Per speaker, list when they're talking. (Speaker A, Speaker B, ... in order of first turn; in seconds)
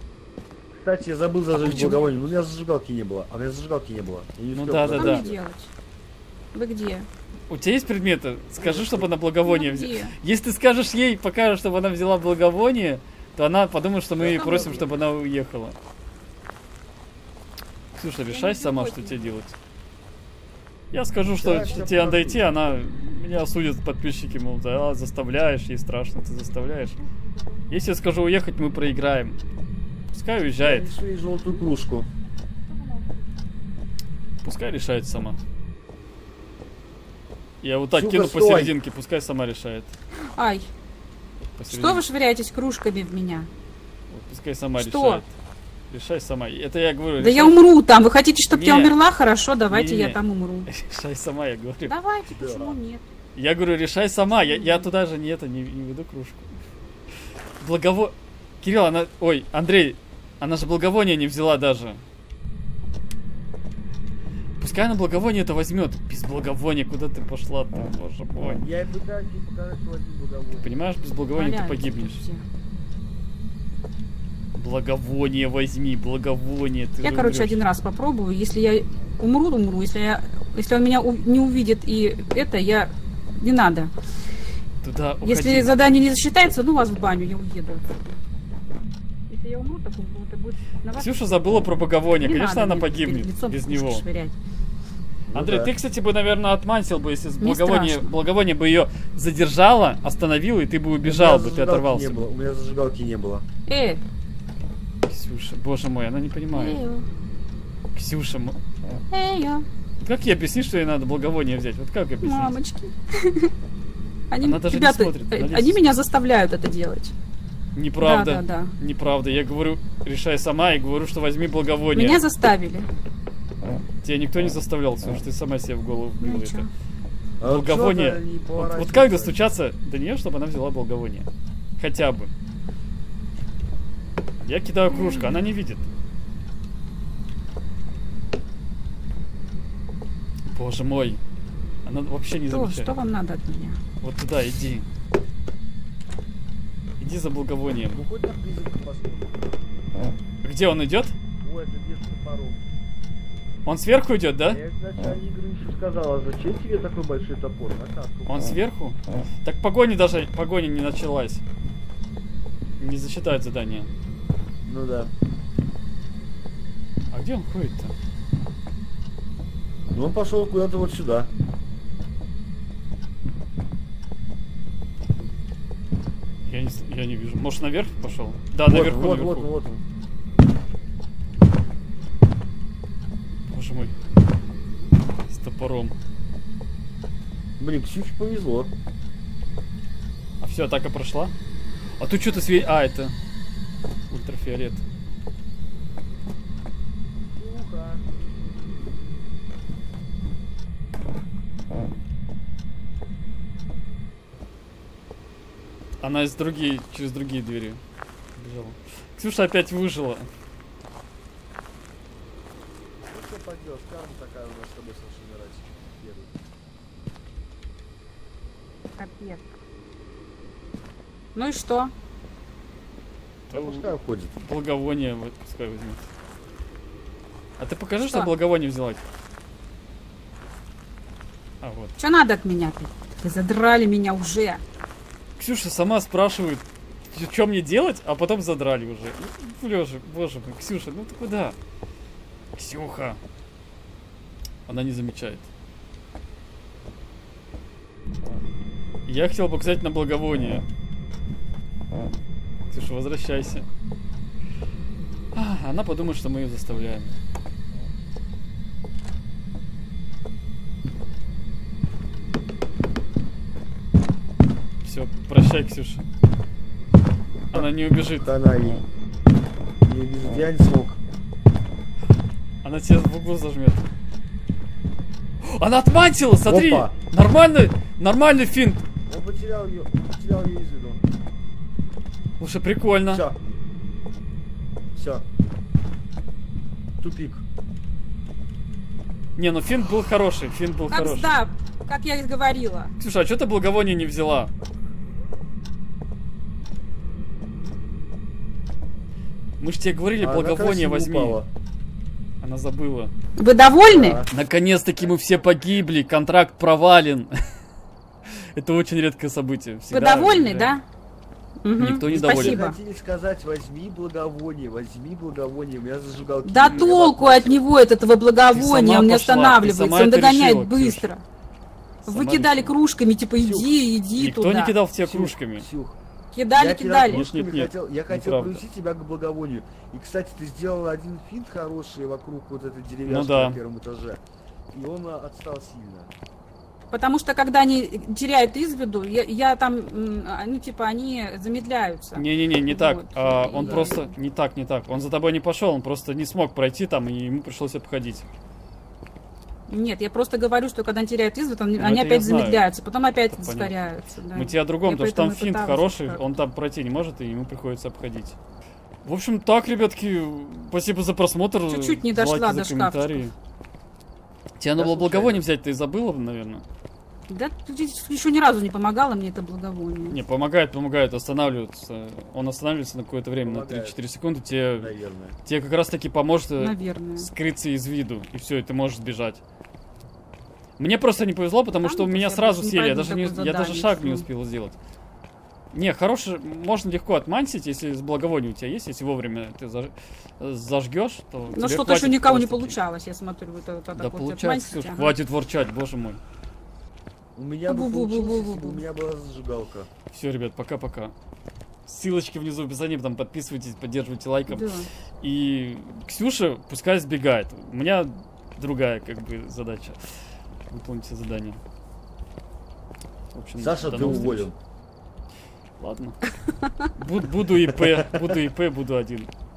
Speaker A: 0.8-5.4, 8.6-9.1, 14.2-14.9, 21.4-22.5, 30.6-32.1, 37.9-38.7, 52.3-52.8, 68.4-70.7, 95.3-95.7, 101.0-103.4, 127.4-129.4, 147.9-149.4, 151.4-152.6, 154.5-158.6, 164.6-165.1, 169.9-171.3, 178.7-179.8, 187.6-188.7, 197.3-198.0, 213.1-216.3, 223.5-224.3, 268.2-268.8, 269.8-271.0, 276.4-276.9, 279.1-281.0, 283.1-283.4, 284.9-285.2, 287.0-287.4, 300.2-301.5, 303.9-304.3, 305.1-305.4, 312.1-317.6, 323.4-323.7, 325.0-326.0, 326.5-334.2, 334.7-336.1, 343.5-344.0, 364.8-365.4, 373.4-374.0, 374.8-375.4, 397.4-399.9, 413.6-414.6, 417.7-418.3
Speaker B: 1.5-2.1, 4.5-5.3, 7.5-15.8, 18.0-19.5, 20.9-27.0, 27.7-29.4, 30.1-30.9, 34.4-35.4, 37.6-39.9, 41.5-42.0, 44.1-45.3, 45.9-47.6, 48.5-48.9, 49.7-51.9, 53.4-56.5, 57.6-62.0, 64.6-68.6, 70.6-72.2, 74.5-77.6, 84.8-85.7, 90.9-94.0, 95.3-102.2, 105.1-106.8, 107.9-108.6, 110.0-112.5, 114.4-115.8, 117.7-122.2, 124.0-126.7, 127.4-131.3, 131.8-132.3, 134.4-135.8, 140.5-141.2, 141.8-142.9, 144.0-144.9, 147.0-148.0, 150.4-151.1, 153.7-154.6, 158.3-161.4, 162.8-163.9, 167.1-167.9, 176.5-179.5, 183.5-183.9, 185.3-185.9, 190.4-191.3, 192.0-193.1, 194.1-194.8, 206.0-207.8, 208.3-210.3, 223.5-226.1, 227.6-229.0, 231.6-231.9, 235.4-241.6, 242.6-243.2, 244.7-245.5, 249.1-250.6, 252.7-253.7, 255.3-257.1, 264.8-266.0, 267.5-268.3, 272.6-273.8, 275.4-278.8, 282.4-283.2, 289.4-291.3, 293.0-294.5, 299.6-301.4, 302.4-303.1, 304.3-307.4, 308.6-310.8, 311.8-312.6, 316.6-316.9, 318.5-321.1, 322.0-322.7, 324.2-325.7, 327.1-328.6, 333.1-333.6, 342.1-348.2, 351.8-352.6, 353.3-353.7, 354.3-358.4, 359.0-363.3, 364.6-366.6, 370.1-374.9, 375.4-379.4, 380.8-384.7, 385.7-392.8, 393.9-396.2, 400.1-401.1, 401.9-410.0, 410.7-411.6, 413.3-414.5, 415.8-416.2, 416.9-419.3
Speaker C: 4.9-5.7, 6.5-7.1, 9.4-10.2, 14.3-14.7, 18.2-19.4, 27.1-27.8, 32.8-33.2, 40.3-40.7, 41.7-43.5, 44.8-45.2, 47.2-50.7, 51.8-53.0, 54.3-54.9, 71.3-72.4, 77.0-83.9, 85.2-88.2, 89.3-91.6, 92.2-94.4, 97.4-98.1, 103.7-104.0, 106.5-107.1, 109.1-109.7, 112.2-113.5, 114.3-117.1, 118.0-118.7, 121.9-122.9, 126.2-126.7, 134.9-135.5, 142.5-143.8, 219.0-219.5, 221.3-221.9, 232.0-234.6, 290.9-292.9, 303.4-304.2, 309.9-310.8, 311.6-312.8, 316.4-321.2, 322.1-324.7, 326.3-327.2, 336.9-344.1, 349.7-356.2, 361.7-363.3, 367.3-370.2, 376.6-377.3, 381.8-384.3, 391.5-395.1, 397.7-398.8, 404.5-404.9, 413.9-414.4, 416.5-416.9